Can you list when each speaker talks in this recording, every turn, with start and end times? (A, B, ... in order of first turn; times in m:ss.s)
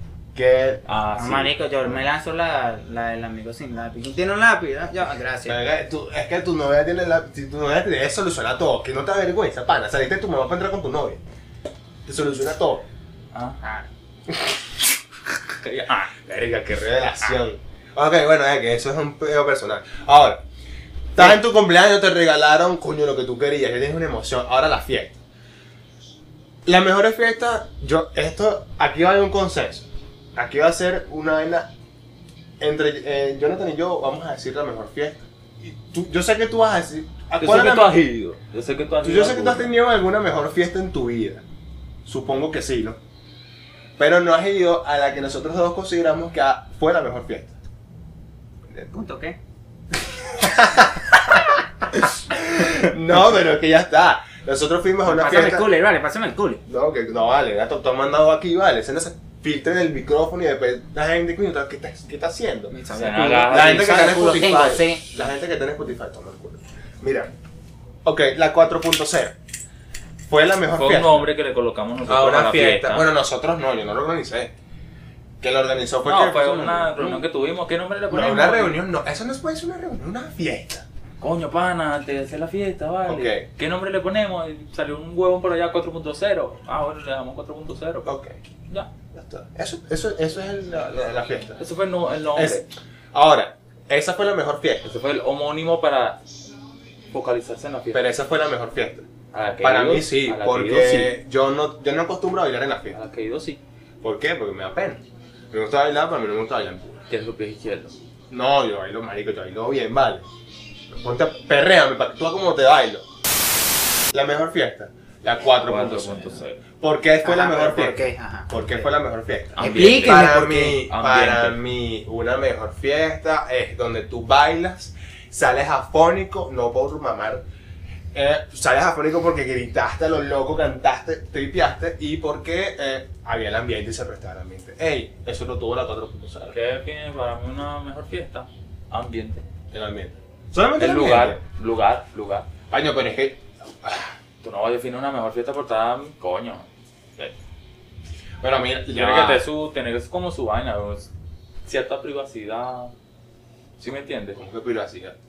0:00.4-0:00.8 A
0:00.9-0:01.5 B
0:01.2-0:05.6 C
0:05.5-0:11.2 A
0:12.0-0:12.8 A
0:13.3-0:13.6 B
0:13.6-0:13.9 C
0:14.3-0:14.6 A
0:15.6-0:16.1 B
0:16.2-0:20.4 A
0:21.1-0:25.2 A
0:26.7-0:31.7 A
0:32.6-0:38.0 A
0:37.4-0:39.8 B
0:39.0-0:41.4 A
0:42.0-0:43.0 A
0:44.0-0:47.6 A
0:48.9-0:49.4 C
0:50.4-0:55.7 A
0:55.1-0:56.6 C
0:56.7-1:02.7 A
1:02.7-1:05.0 C
1:02.9-1:04.1 B
1:03.5-1:07.3 A
1:08.0-1:09.4 A
1:10.3-1:11.3 A
1:10.7-1:13.1 B
1:12.1-1:14.5 A
1:15.4-1:17.2 A
1:16.0-1:18.8 B
1:18.1-1:20.9 A
1:21.2-1:28.1 B
1:23.1-1:23.5 A
1:28.0-1:28.4 A
1:29.1-1:31.6 A
1:31.6-1:32.6 B
1:32.4-1:34.9 A
1:34.8-1:36.2 B
1:37.1-1:38.0 B
1:37.9-1:39.1 A
1:39.3-1:41.2 B
1:39.6-1:43.0 A
1:42.9-1:43.6 B
1:44.0-1:47.0 A
1:47.1-1:47.9 B
1:48.3-1:50.2 A
1:50.9-1:53.0 A
1:54.1-2:07.4 A
1:55.6-1:56.6 B
1:57.2-1:58.9 C
1:59.6-2:01.6 B
1:59.6-2:00.8 C
2:08.1-2:16.6 A
2:16.5-2:19.4 B
2:19.7-2:21.4 A
2:20.8-2:22.5 B
2:22.7-2:24.1 A
2:24.4-2:26.7 B
2:28.4-2:29.4 A
2:28.9-2:31.1 B
2:31.6-2:32.9 B
2:33.8-2:34.4 B
2:34.3-2:35.2 A